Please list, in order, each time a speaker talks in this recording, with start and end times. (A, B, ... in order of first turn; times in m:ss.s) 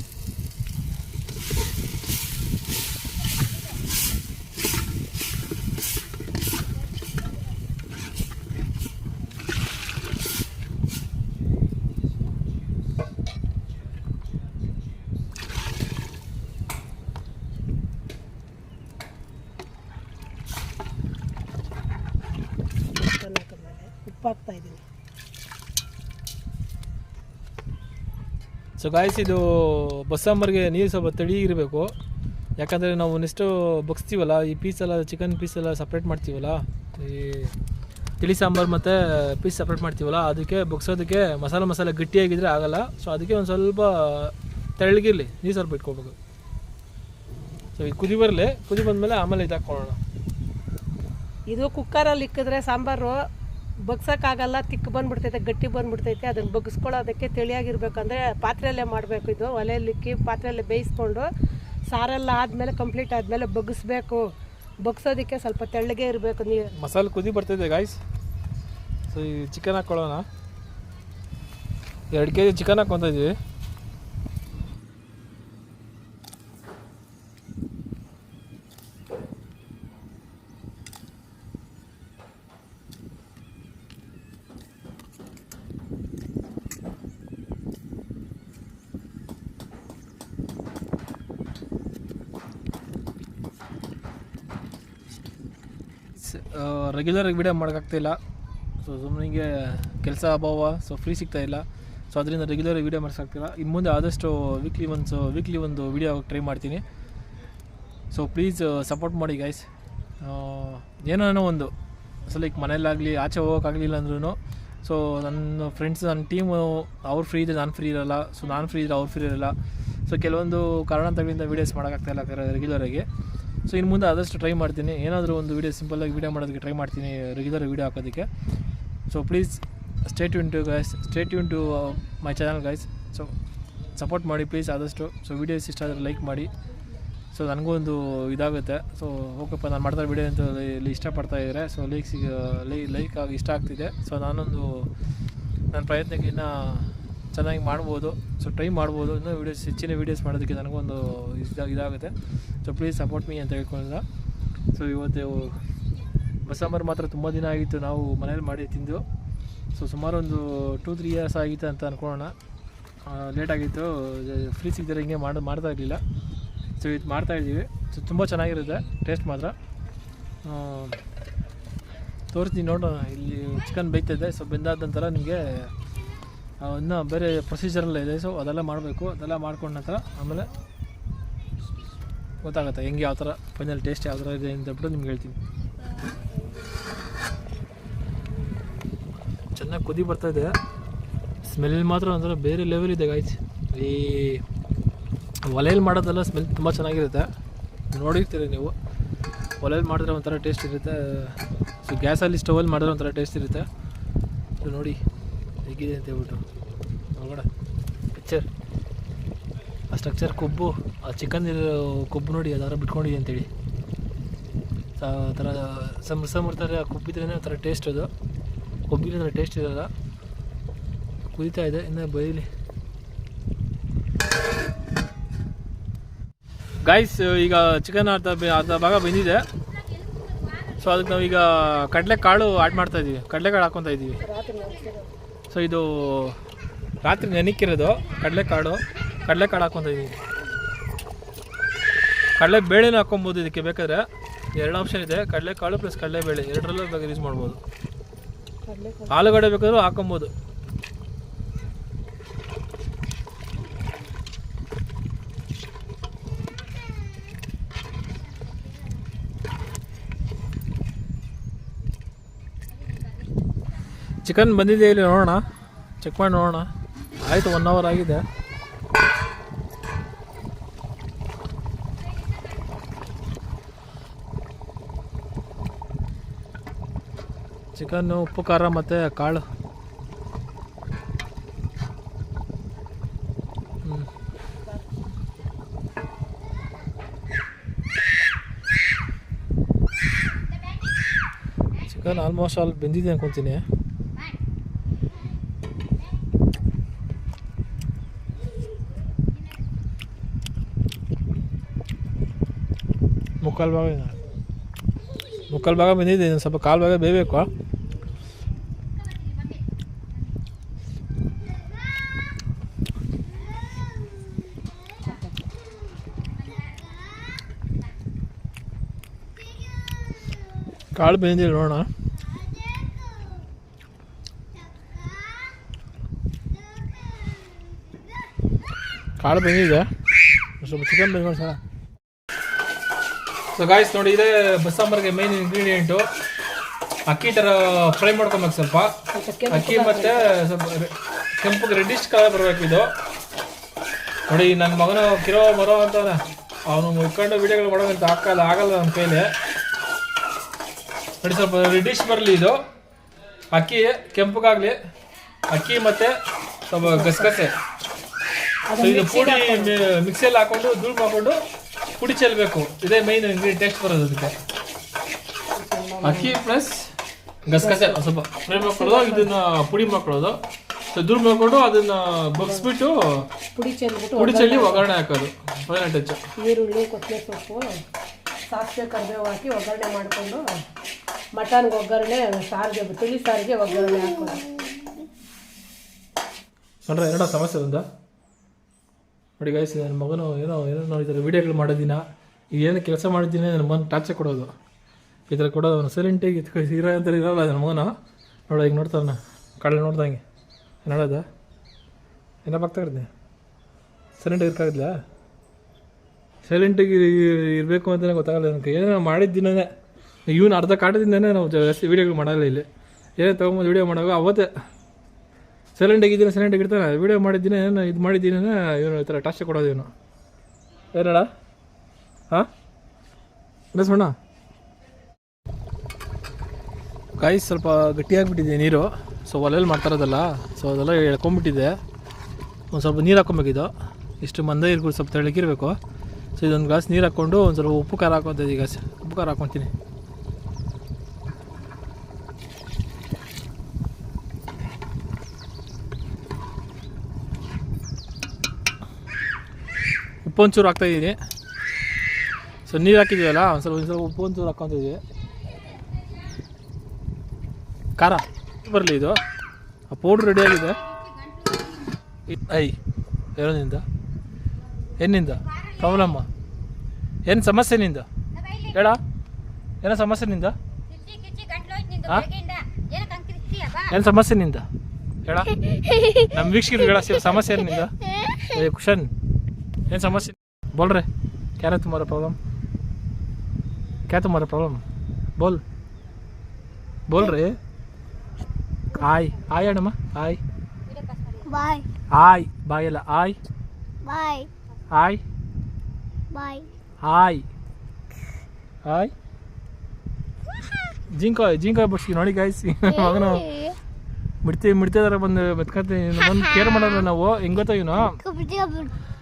0:23.0-0:24.8 A
0:28.8-0:31.9 B
0:32.6-0:37.6 B
0:38.2-0:46.2 B
0:47.8-0:50.0 B
0:51.5-0:53.2 A
0:53.8-1:01.2 A
1:01.9-1:04.2 A
1:04.8-1:06.7 A
1:06.8-1:08.0 B
1:09.1-1:10.3 B
1:12.1-1:13.4 B
1:36.1-1:38.2 B
1:38.8-1:46.8 B
1:48.1-1:49.7 B
1:50.2-1:51.7 B
1:52.2-2:03.1 B
2:03.6-2:08.3 B
2:09.1-2:13.3 B
2:14.0-2:16.5 B
2:17.3-2:24.9 B
2:25.7-2:34.0 B
2:34.7-2:35.6 B
2:36.4-2:39.0 B
2:39.7-2:42.4 B
2:43.0-2:46.0 B
2:46.8-2:49.6 B
2:50.4-2:51.0 B
2:52.3-2:55.7 B
2:56.6-3:00.5 B
3:02.4-3:05.4 B
3:09.5-3:10.6 B
3:11.4-3:14.4 B
3:15.4-3:17.3 B
3:17.9-3:18.8 B
3:19.6-3:23.7 B
3:24.6-3:25.0 B
3:25.6-3:26.4 B
3:27.1-3:27.5 B
3:28.2-3:28.5 B
3:29.9-3:33.5 B
3:35.0-3:38.1 B
3:38.9-3:39.9 B
3:41.3-3:42.5 B
3:46.8-3:49.5 B
3:50.7-3:54.2 B
3:54.2-3:55.1 A
3:55.5-3:56.4 B
3:57.0-4:00.2 B
4:02.4-4:07.6 B
4:08.6-4:09.4 A
4:09.1-4:10.3 B
4:24.2-4:25.4 B
4:26.0-4:28.2 B
4:37.7-4:39.5 B
4:43.8-4:44.1 B
4:51.8-4:53.6 B
5:03.4-5:04.2 B
5:05.5-5:07.5 B
5:13.8-5:14.8 C
5:19.7-5:20.4 C
5:20.9-5:21.9 B
5:22.3-5:23.4 C
5:24.7-5:25.6 C
5:26.6-5:28.0 C
5:29.2-5:29.9 B
5:30.6-5:31.6 B
5:33.5-5:36.1 B
5:37.0-5:39.0 B
5:39.1-5:40.4 A
5:39.5-5:42.9 B
5:44.3-5:49.3 B
5:51.2-5:52.6 B
5:53.5-5:54.8 B
5:55.5-5:57.6 B
5:56.8-5:57.3 A
5:58.7-5:59.8 A
5:58.8-6:01.4 B
6:02.0-6:04.4 B
6:05.5-6:06.4 A
6:06.0-6:06.9 B
6:07.5-6:10.4 B
6:07.5-6:09.3 A
6:10.9-6:13.3 B
6:12.4-6:12.7 A
6:13.5-6:14.9 A
6:14.2-6:16.2 B
6:16.4-6:17.6 A
6:18.5-6:20.4 A
6:21.3-6:24.5 A
6:24.5-6:25.0 C
6:26.8-6:27.9 B
6:29.4-6:34.5 B
6:35.3-6:37.9 B
6:38.5-6:40.2 B
6:40.8-6:41.2 B
6:42.4-6:43.1 B
6:44.2-6:45.0 B
6:46.4-6:49.7 B
6:50.2-6:54.5 B
6:55.8-6:59.9 B
7:00.9-7:01.3 B
7:03.7-7:04.2 B
7:07.2-7:11.8 B
7:12.7-7:15.8 B
7:16.4-7:19.7 B
7:30.2-7:31.2 B
7:32.7-7:35.0 B
7:38.0-7:39.2 B
7:39.9-7:41.0 B
7:42.3-7:42.8 B
7:43.4-7:43.8 B
7:45.0-7:46.3 B
7:47.2-7:48.1 B
7:48.7-7:49.0 B
7:49.8-7:50.6 B
7:52.0-7:52.4 B
7:53.7-7:54.7 B
7:55.2-7:55.5 B
7:55.7-7:56.4 C
7:56.3-7:57.9 B
7:58.2-7:58.6 C
7:58.5-7:59.1 B
7:59.9-8:01.1 B
8:01.6-8:02.4 B
8:04.1-8:04.8 B
8:05.4-8:05.6 B
8:07.1-8:07.6 B
8:09.0-8:10.4 B
8:11.4-8:11.9 C
8:12.1-8:13.4 B
8:14.0-8:14.5 C
8:14.9-8:15.2 B
8:16.3-8:16.7 C
8:17.0-8:17.4 B
8:18.8-8:19.1 B
8:21.1-8:23.5 B
8:22.9-8:23.8 C
8:24.4-8:28.2 B
8:26.4-8:27.0 C
8:28.0-8:29.0 C